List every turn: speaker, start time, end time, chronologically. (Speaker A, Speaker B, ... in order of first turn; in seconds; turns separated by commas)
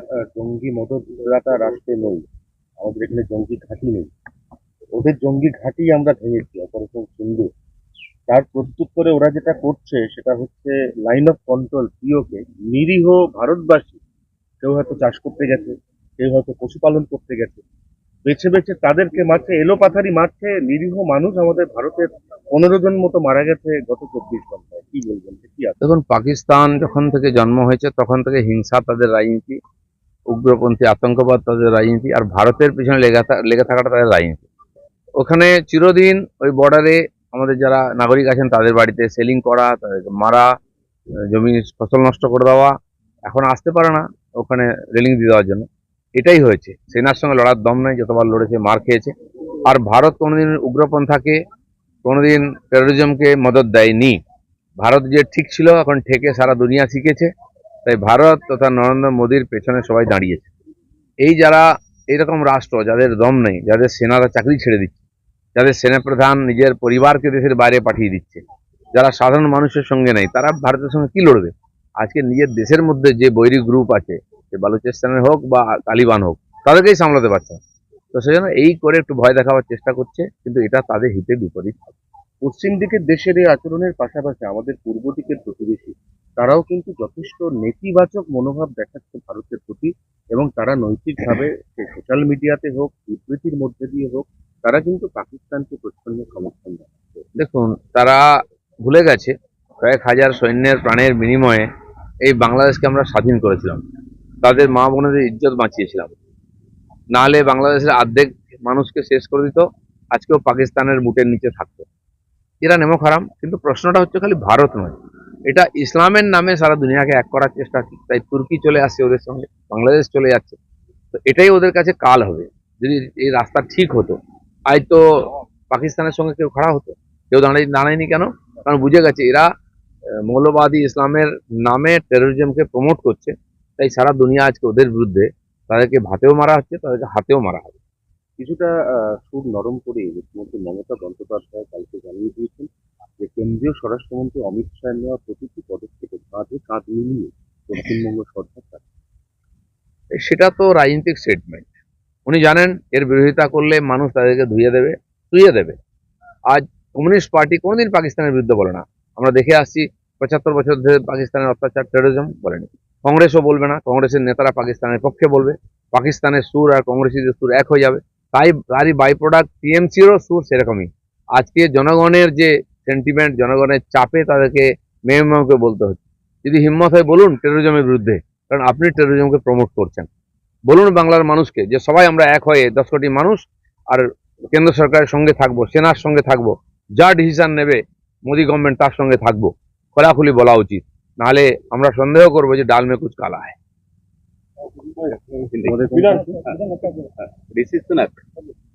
Speaker A: 0.3-2.2, Speaker A: 2.8-4.1, Speaker A: 5.0-7.5, Speaker A: 8.3-14.0, Speaker A: 14.6-17.6, Speaker A: 18.2-25.8, Speaker B: 25.8-29.6, Speaker B: 30.3-34.4, Speaker B: 35.2-40.4, Speaker B: 41.3-42.7, Speaker B: 43.3-45.6, Speaker B: 46.2-49.1, Speaker B: 49.6-51.4, Speaker B: 52.0-54.2, Speaker B: 54.8-57.3, Speaker B: 57.8-60.5, Speaker B: 61.2-65.0, Speaker B: 65.5-68.4, Speaker B: 68.9-77.6, Speaker B: 78.1-81.9, Speaker A: 82.4-97.2, Speaker B: 97.3-98.2, Speaker B: 98.8-101.7, Speaker B: 102.2-103.8, Speaker B: 104.4-106.1, Speaker B: 107.1-111.8, Speaker B: 112.6-114.9, Speaker B: 115.5-120.6, Speaker B: 121.2-124.2, Speaker B: 124.7-129.5, Speaker B: 130.2-137.8, Speaker A: 138.4-142.7, Speaker A: 143.2-148.8, Speaker B: 150.2-151.7, Speaker B: 152.3-155.8, Speaker B: 156.5-180.1, Speaker B: 180.7-193.6, Speaker C: 194.9-198.2, Speaker A: 195.7-196.4